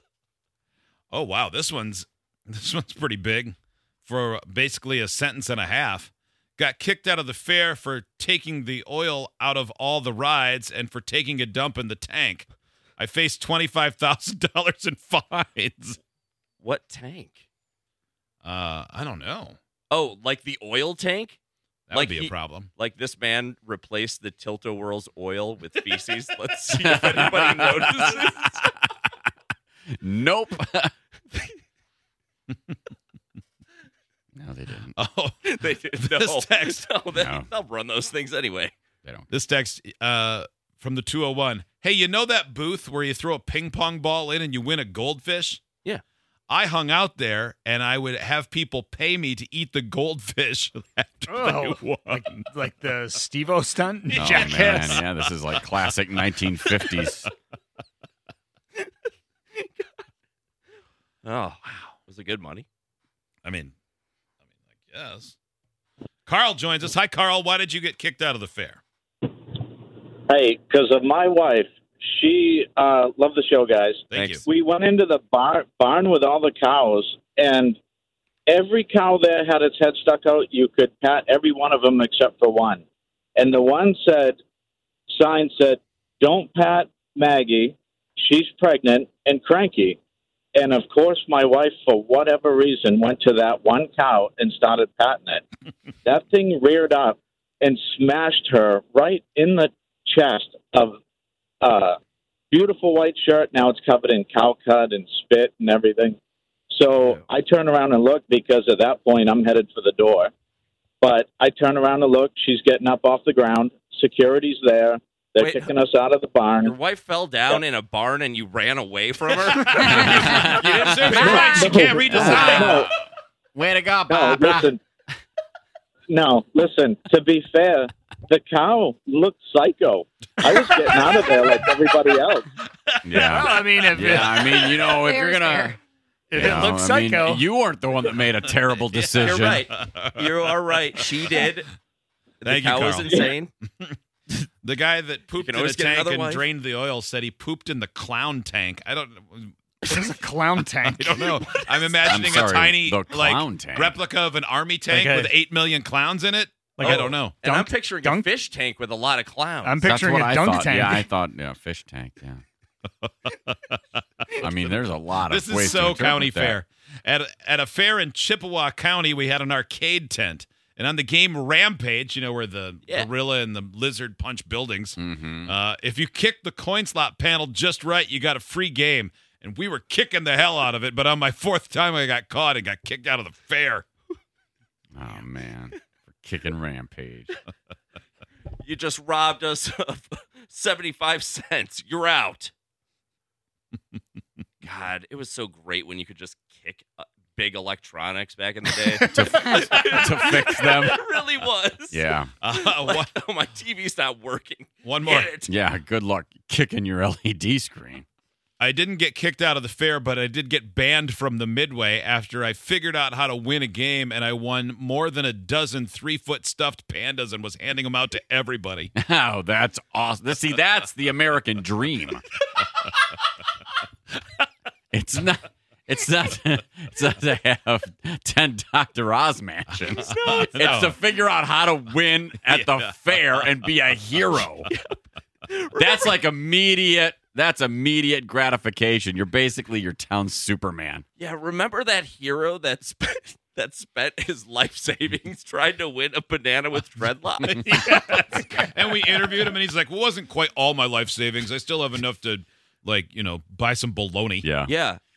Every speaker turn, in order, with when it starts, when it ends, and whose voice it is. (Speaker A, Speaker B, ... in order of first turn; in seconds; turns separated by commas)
Speaker A: 1.1-3.5, Speaker A: 4.1-16.0, Speaker B: 16.6-17.4, Speaker A: 18.4-19.6, Speaker B: 19.9-21.4, Speaker A: 21.9-22.7, Speaker B: 21.9-28.6, Speaker C: 26.8-28.1, Speaker C: 30.0-30.9, Speaker C: 34.4-34.9, Speaker A: 35.0-36.9, Speaker B: 35.5-38.7, Speaker C: 37.2-37.5, Speaker A: 39.3-45.6, Speaker A: 46.5-52.3, Speaker D: 51.3-55.0, Speaker A: 54.1-55.7, Speaker C: 54.2-57.3, Speaker A: 56.8-57.1, Speaker B: 61.2-62.7, Speaker A: 63.4-63.7, Speaker A: 64.9-65.4, Speaker A: 66.3-68.8, Speaker E: 70.3-77.8, Speaker A: 74.1-74.4, Speaker B: 74.2-74.4, Speaker E: 78.5-82.8, Speaker E: 83.4-84.4, Speaker E: 85.1-90.0, Speaker E: 90.5-95.4, Speaker E: 96.0-101.0, Speaker E: 101.6-102.0, Speaker E: 102.5-106.2, Speaker E: 106.7-110.3, Speaker B: 107.0-107.3, Speaker E: 111.0-116.8, Speaker B: 115.4-115.8, Speaker B: 116.6-121.6, Speaker A: 119.4-122.9, Speaker C: 120.2-121.2, Speaker E: 121.1-122.9, Speaker B: 122.1-122.7, Speaker C: 122.2-122.8, Speaker C: 123.6-124.7, Speaker E: 124.1-124.8, Speaker E: 126.1-132.5, Speaker A: 132.9-134.2, Speaker C: 133.1-135.8, Speaker D: 133.2-134.9, Speaker D: 136.3-137.4, Speaker C: 136.4-139.6, Speaker A: 138.8-140.5, Speaker B: 139.2-141.7, Speaker B: 142.4-143.5, Speaker A: 142.4-143.1, Speaker E: 143.1-143.3, Speaker A: 144.6-149.6, Speaker B: 145.3-146.5, Speaker D: 149.9-151.2, Speaker A: 151.0-157.4, Speaker B: 151.3-152.3, Speaker C: 152.2-153.9, Speaker D: 154.9-155.3, Speaker B: 156.8-159.8, Speaker D: 156.9-158.3, Speaker D: 159.6-161.1, Speaker C: 159.8-162.4, Speaker A: 163.0-163.8, Speaker C: 164.4-166.6, Speaker A: 165.2-183.9, Speaker C: 175.0-175.5, Speaker C: 185.0-187.3, Speaker B: 188.6-192.5, Speaker B: 194.6-205.5, Speaker D: 199.0-199.4, Speaker C: 199.1-201.0, Speaker C: 201.9-202.3, Speaker A: 202.4-203.1, Speaker A: 204.8-205.3, Speaker C: 205.5-208.1, Speaker A: 208.6-218.9, Speaker C: 219.0-222.2, Speaker C: 224.9-230.1, Speaker B: 229.9-230.9, Speaker A: 230.3-231.0, Speaker C: 230.6-234.7, Speaker A: 232.4-232.9, Speaker B: 234.7-236.2, Speaker C: 235.8-241.1, Speaker B: 241.2-248.4, Speaker D: 247.7-248.4, Speaker A: 247.9-254.5, Speaker C: 254.4-254.7, Speaker B: 254.7-255.0